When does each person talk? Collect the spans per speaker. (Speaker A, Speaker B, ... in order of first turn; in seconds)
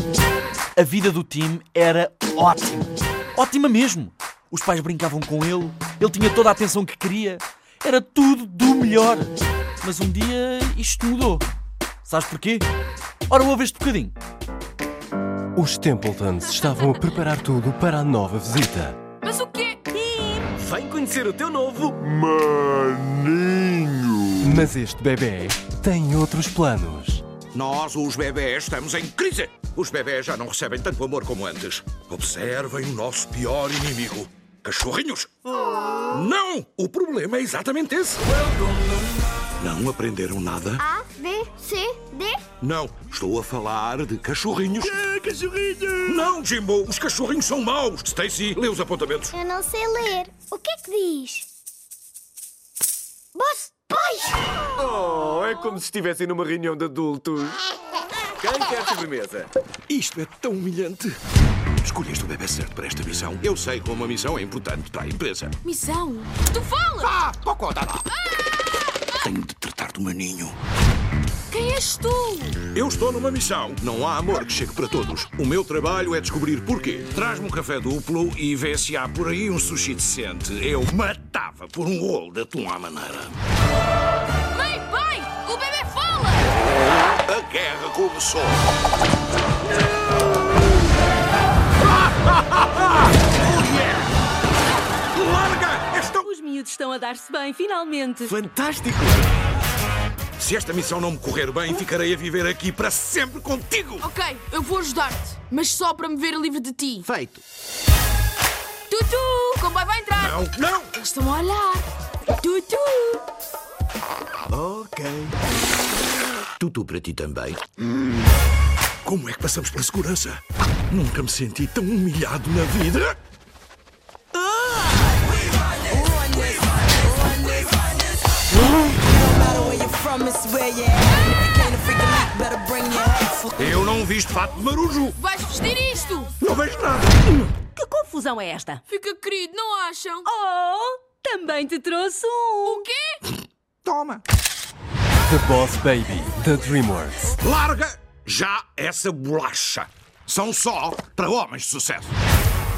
Speaker A: 0.7-11.4, 12.0-12.7, 13.3-14.1, 20.7-21.3
Speaker B: 15.5-19.0, 24.4-27.2, 145.2-147.3
Speaker C: 19.2-19.9, 65.6-67.1, 68.3-68.6, 71.5-72.5, 84.5-86.5, 104.0-107.1, 108.9-110.4, 110.9-111.9, 112.4-113.2, 135.2-136.3, 138.9-140.3, 142.7-143.2
Speaker D: 19.9-20.5, 96.1-98.4, 137.2-138.8, 140.2-142.8
Speaker E: 22.6-23.4, 45.1-45.9, 54.8-57.5, 58.4-59.4
Speaker F: 27.5-35.3, 36.1-38.2, 39.6-40.8, 42.6-45.1, 46.0-49.3, 59.9-61.1, 61.8-65.6, 67.0-68.1, 69.2-70.5, 72.7-83.4, 87.0-88.6, 91.8-94.1, 95.1-96.2, 100.4-104.1, 107.1-107.4, 110.2-110.9, 116.6-117.6, 119.0-123.2, 133.5-135.2, 136.4-137.2, 143.8-144.2, 147.4-152.1
Speaker G: 40.8-42.3, 50.3-51.5, 53.6-54.3, 129.7-130.9, 131.4-133.5